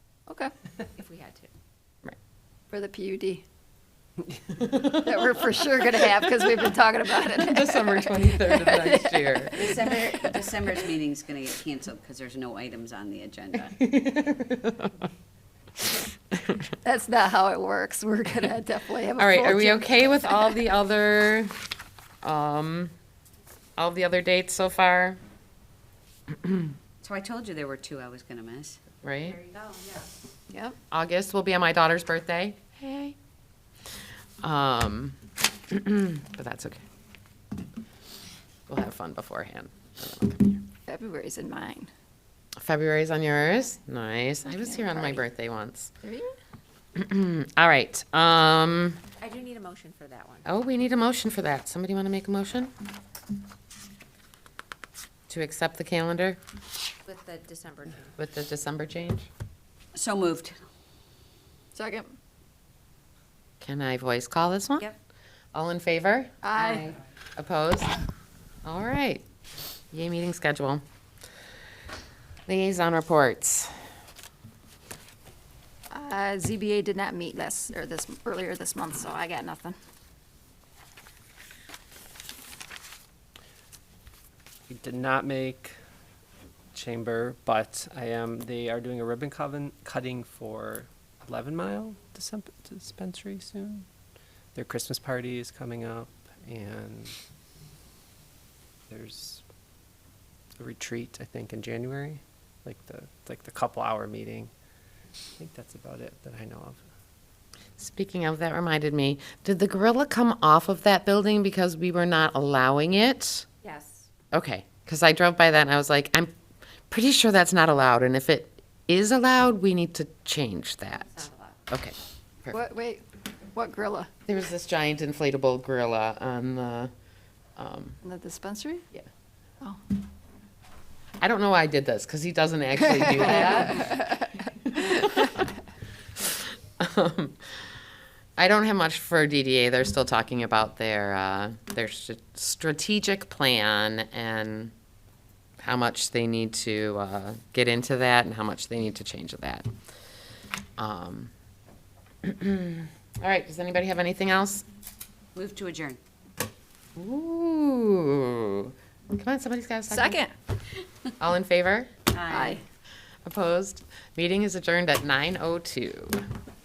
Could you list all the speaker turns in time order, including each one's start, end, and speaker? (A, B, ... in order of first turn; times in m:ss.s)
0:01.0-0:01.5 A
0:02.7-0:03.4 B
0:04.6-0:05.0 C
0:04.8-0:10.3 B
0:07.3-0:09.6 C
0:09.6-0:13.8 D
0:13.8-0:14.9 C
0:16.8-0:20.4 B
0:19.2-0:21.5 C
0:22.2-0:22.9 C
0:23.8-0:25.2 C
0:27.0-0:28.8 D
0:29.0-0:29.4 C
0:29.3-0:30.0 A
0:30.5-0:30.8 B
0:30.9-0:33.2 C
0:34.4-0:35.2 C
0:35.7-0:36.8 C
0:38.7-0:40.6 C
0:40.9-0:41.9 B
0:42.6-0:45.9 C
0:44.5-0:45.2 B
0:46.0-0:46.3 B
0:47.0-0:49.0 C
0:49.2-0:50.5 A
0:50.5-0:52.7 C
0:55.3-0:56.4 C
0:57.1-0:58.2 A
0:58.2-0:59.3 C
0:59.9-1:00.6 D
1:01.7-1:02.2 B
1:03.6-1:04.9 C
1:05.5-1:08.0 C
1:06.4-1:07.0 B
1:08.6-1:09.2 C
1:09.9-1:10.8 C
1:12.5-1:13.7 C
1:15.9-1:19.8 B
1:24.7-1:25.8 E
1:26.7-1:33.9 E
1:34.6-1:37.1 E
1:38.9-1:39.4 E
1:40.6-1:44.5 E
1:45.4-1:46.8 E
1:47.8-1:53.5 C
1:53.6-1:54.1 A
1:54.3-1:56.3 C
1:56.9-2:02.6 C
2:01.0-2:01.6 A
2:02.5-2:04.1 B
2:04.3-2:06.9 C
2:07.6-2:08.0 C
2:08.0-2:08.9 B
2:11.2-2:15.4 C
2:13.3-2:14.1 B
2:16.3-2:17.7 C
2:18.4-2:24.7 C
2:25.6-2:29.7 C
2:30.8-2:31.3 C
2:32.2-2:34.6 C
2:35.4-2:36.0 D
2:37.0-2:40.2 C
2:39.9-2:40.3 B
2:41.2-2:41.9 C
2:42.1-2:42.6 D
2:42.3-2:42.6 B
2:43.3-2:46.2 C